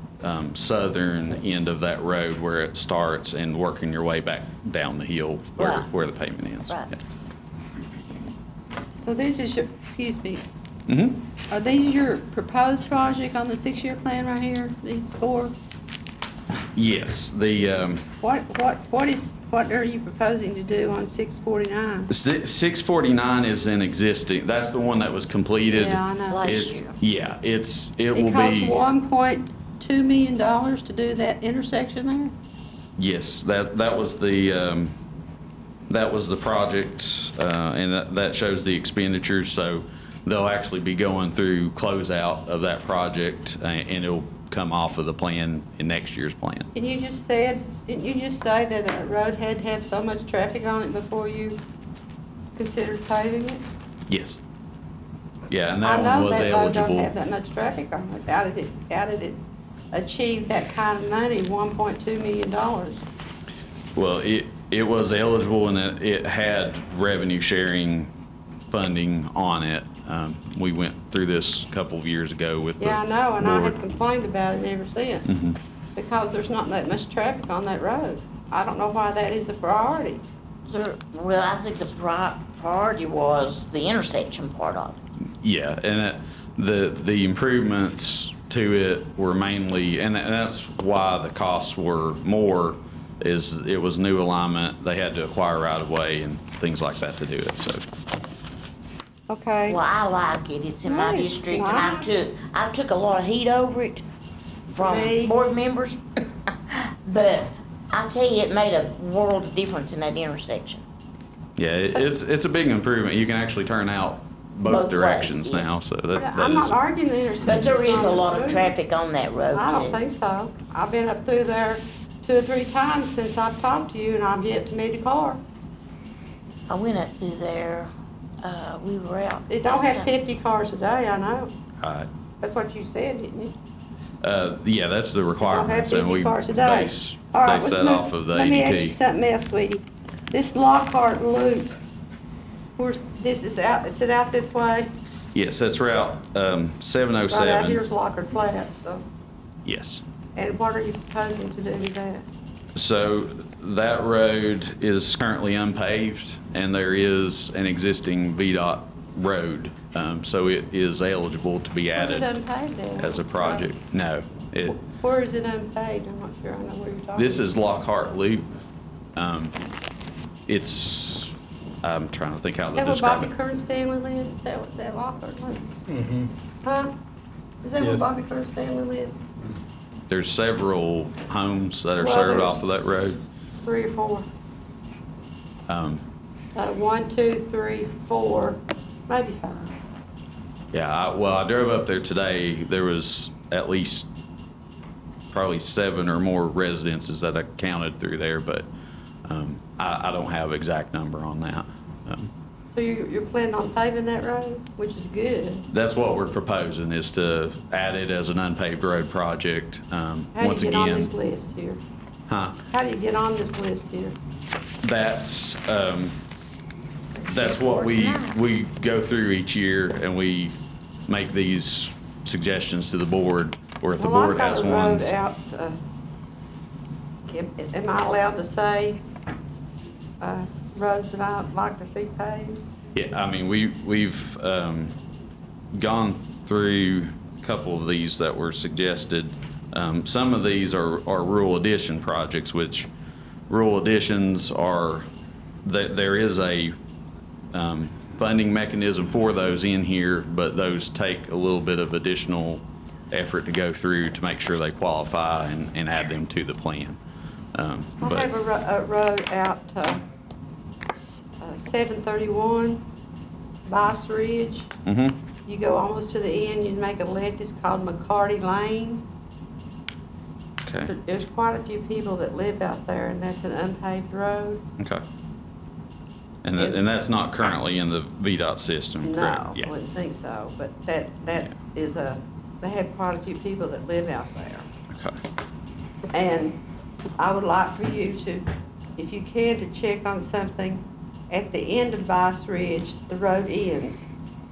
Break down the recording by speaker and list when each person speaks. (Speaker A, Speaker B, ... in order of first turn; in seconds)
Speaker A: 0.2-7.0, 10.9-11.2, 16.7-18.1, 22.1-28.8, 33.0-35.0, 35.9-46.7, 54.1-54.4, 55.5-57.1, 64.0-68.1, 68.7-73.8, 75.3-75.6, 85.4-97.8, 111.6-116.8, 131.8-132.1, 134.2-139.0, 145.3-147.8, 149.7-150.0, 152.8-162.3, 163.0-164.8, 167.2-168.5, 169.2-169.6, 170.5-173.3, 180.1-183.2, 185.7-186.1, 190.7-194.1, 195.3-198.7, 199.2-202.3, 205.7-211.1, 212.3-212.6, 214.8-216.2, 217.3-220.6, 221.1-225.1, 232.9-234.9, 235.7-242.9, 243.5-245.1, 245.6-246.8, 247.5-257.0, 257.5-258.3, 264.9-265.2, 270.6-270.9, 274.8-275.0, 276.4-279.7, 284.9-285.2
Speaker B: 5.6-5.9, 26.3-27.0, 80.7-85.0, 99.7-104.0, 104.7-110.8, 114.7-115.8, 117.4-120.0, 126.7-127.9, 128.4-130.1, 217.3-218.4
Speaker C: 9.0-10.4, 11.5-15.5, 18.2-22.1, 25.7-26.5, 28.1-32.3, 46.7-51.6, 52.6-53.6, 55.8-59.4, 59.9-63.0, 72.8-75.3, 76.0-80.2, 99.3-99.8, 100.9-102.2, 104.8-105.3, 116.2-118.8, 119.5-125.4, 129.5-131.5, 132.4-133.6, 135.4-141.8, 142.8-144.9, 147.3-149.0, 150.4-152.3, 161.9-163.7, 164.7-167.5, 172.8-175.8, 176.6-176.9, 177.6-179.2, 182.0-182.8, 183.6-184.3, 186.6-189.8, 202.7-205.7, 210.3-211.8, 212.7-214.2, 224.0-225.8, 227.3-229.0, 230.2-232.6, 258.0-260.0, 260.9-262.8, 263.7-264.7, 265.5-269.0, 270.9-274.6, 279.0-284.7, 286.1-286.6, 287.2-294.1